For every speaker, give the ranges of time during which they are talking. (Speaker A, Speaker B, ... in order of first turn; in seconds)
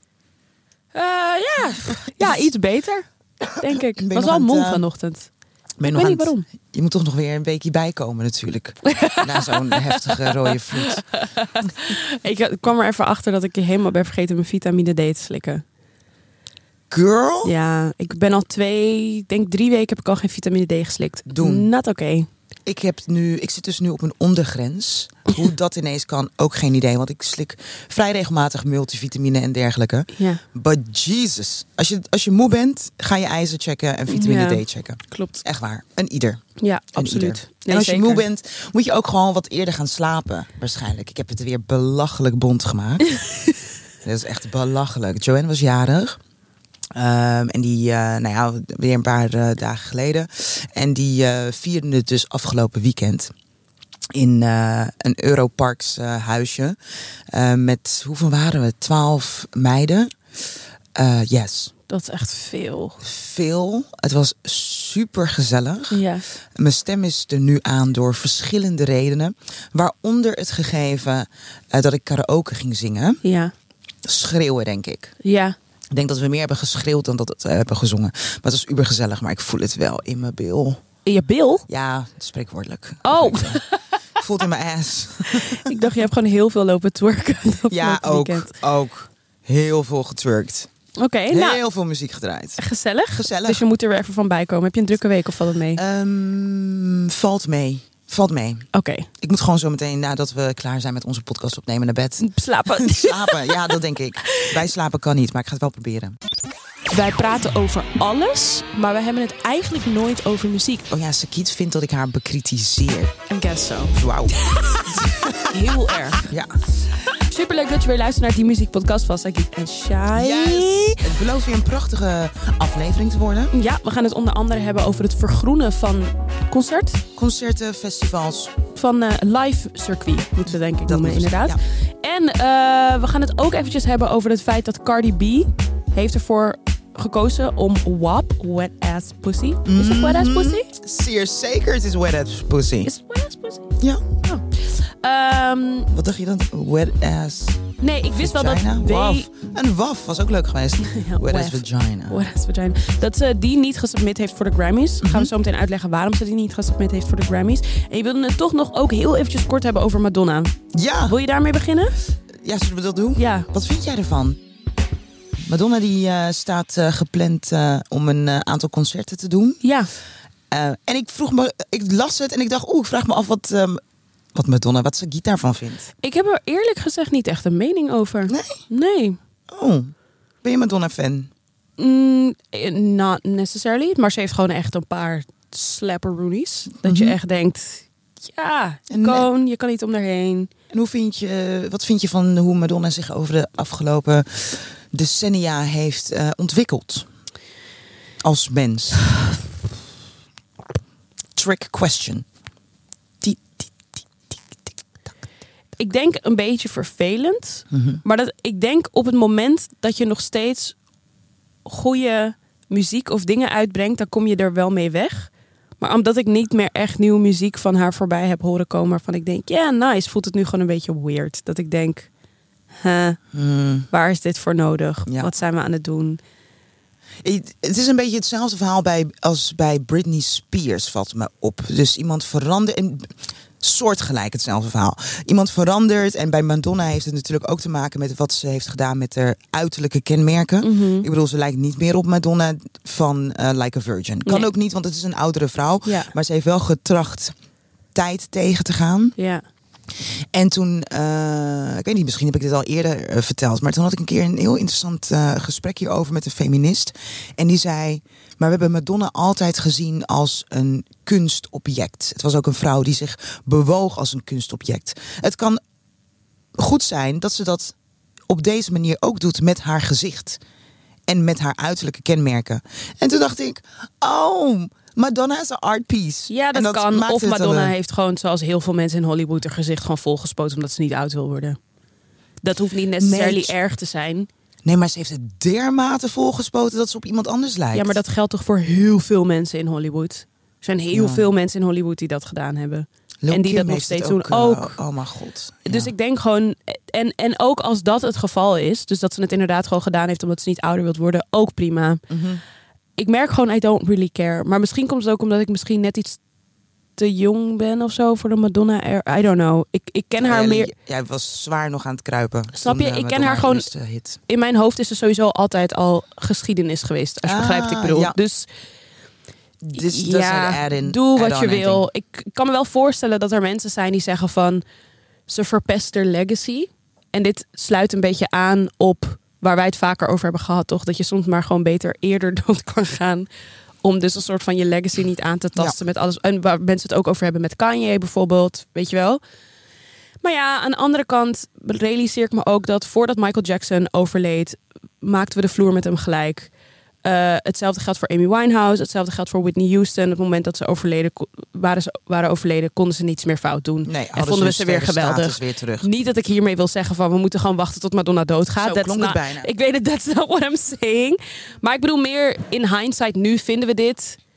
Speaker A: 0.9-5.3, 5.8-6.5, 8.8-15.6, 17.4-22.3, 30.1-30.4, 34.1-35.4, 36.6-38.2, 43.2-43.5, 61.9-63.0, 65.9-66.2, 73.2-73.5, 75.2-75.6, 81.0-81.7, 83.0-84.0, 85.3-88.5, 91.0-91.6, 92.6-95.8, 98.7-99.1, 102.2-103.7, 106.9-110.9, 113.3-116.2, 117.1-121.1, 123.5-127.0, 128.7-140.7, 142.8-143.7, 144.2-145.9, 147.8-149.3, 150.8-160.6, 161.1-162.0, 163.2-163.5, 169.6-169.9, 176.0-179.2, 181.8-190.5, 205.8-210.8, 211.7-222.1, 222.8-223.2, 223.9-226.2, 240.6-241.1, 245.8-246.1, 249.2-249.4, 276.3-281.6, 282.4-284.3, 287.7-294.8, 295.7-302.0, 303.0-306.2, 307.0-310.7, 312.6-313.7, 314.3-318.5, 319.8-324.6, 325.3-333.3, 333.8-339.2, 340.2-346.5, 347.0-364.2
Speaker B: 1.8-2.5, 4.0-4.8, 5.8-11.0, 16.9-17.5, 21.3-21.7, 22.7-43.2, 44.0-46.2, 47.0-53.3, 54.1-56.8, 57.3-60.2, 61.0-61.7, 63.0-66.0, 66.5-73.2, 74.0-75.1, 75.9-80.8, 81.7-83.6, 84.2-85.8, 87.7-90.7, 91.3-93.6, 95.8-98.7, 99.2-106.2, 110.9-113.2, 114.0-115.6, 116.2-116.7, 120.1-123.5, 127.2-128.5, 130.8-131.6, 139.7-142.9, 143.8-144.0, 145.9-152.2, 155.0-155.3, 160.7-161.2, 162.4-164.4, 165.5-169.6, 170.5-173.8, 174.3-175.9, 178.3-178.6, 179.5-181.3, 186.8-187.2, 188.9-189.3, 190.7-197.1, 198.2-199.2, 201.4-202.3, 203.2-204.3, 207.7-208.0, 223.3-223.9, 225.1-225.3, 227.2-247.3, 247.9-249.2, 250.0-265.6, 266.6-267.8, 268.3-270.4, 271.1-277.7, 283.0-283.5, 284.6-288.0, 290.9-291.2, 293.2-295.9, 302.1-302.4, 310.2-314.2, 317.2-318.2, 319.6-321.9, 353.9-355.9, 358.6-359.5